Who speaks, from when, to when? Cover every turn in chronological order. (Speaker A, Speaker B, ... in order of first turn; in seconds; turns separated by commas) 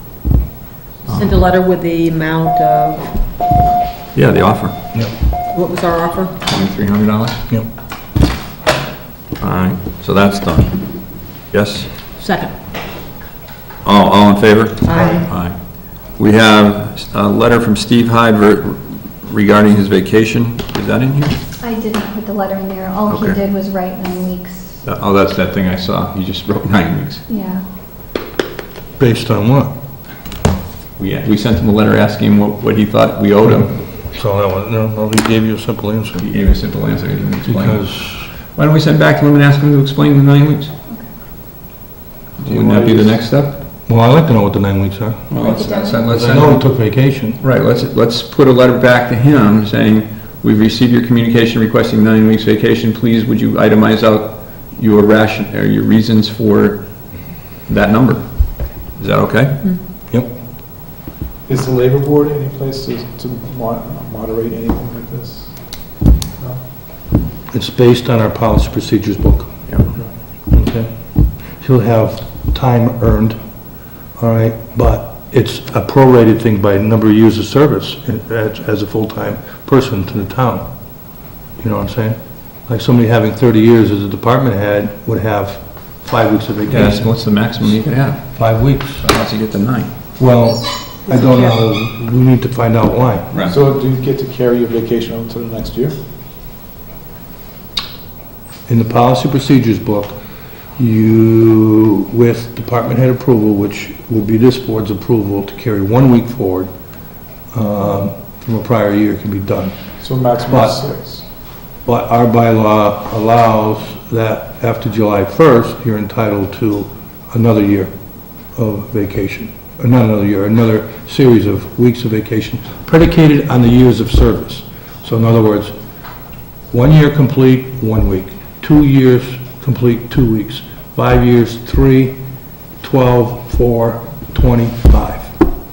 Speaker A: 1.1-3.1, Speaker B: 4.1-4.8, Speaker A: 5.5-6.3, Speaker B: 6.5-7.4, Speaker B: 9.4-10.8, Speaker B: 11.4-11.9, Speaker A: 12.2-12.5, Speaker B: 13.8-21.4, Speaker A: 14.8-15.3, Speaker C: 21.6-24.9, Speaker B: 23.1-23.4, Speaker B: 24.8-27.2, Speaker C: 27.3-27.6, Speaker D: 29.0-29.7, Speaker B: 31.0-33.8, Speaker D: 33.5-36.3, Speaker B: 36.2-37.9, Speaker D: 37.5-38.3, Speaker B: 38.4-40.7, Speaker B: 42.4-43.6, Speaker E: 42.5-43.1, Speaker D: 43.9-45.5, Speaker B: 45.3-46.7, Speaker A: 45.4-45.9, Speaker C: 45.5-46.0, Speaker D: 46.1-47.4, Speaker B: 47.4-56.9, Speaker B: 57.6-59.6, Speaker E: 61.5-65.5, Speaker D: 67.5-69.6, Speaker D: 70.5-73.4, Speaker D: 74.2-80.7, Speaker D: 81.6-87.6, Speaker B: 86.7-89.9, Speaker D: 88.3-89.1, Speaker D: 90.2-93.3, Speaker A: 91.1-91.5, Speaker B: 93.3-93.6, Speaker E: 93.5-96.0, Speaker D: 98.7-100.2, Speaker D: 100.8-106.7, Speaker D: 107.5-109.8, Speaker E: 110.0-111.2, Speaker D: 110.5-110.8, Speaker D: 111.8-117.9, Speaker D: 118.5-125.7, Speaker D: 126.7-132.2, Speaker D: 132.8-135.4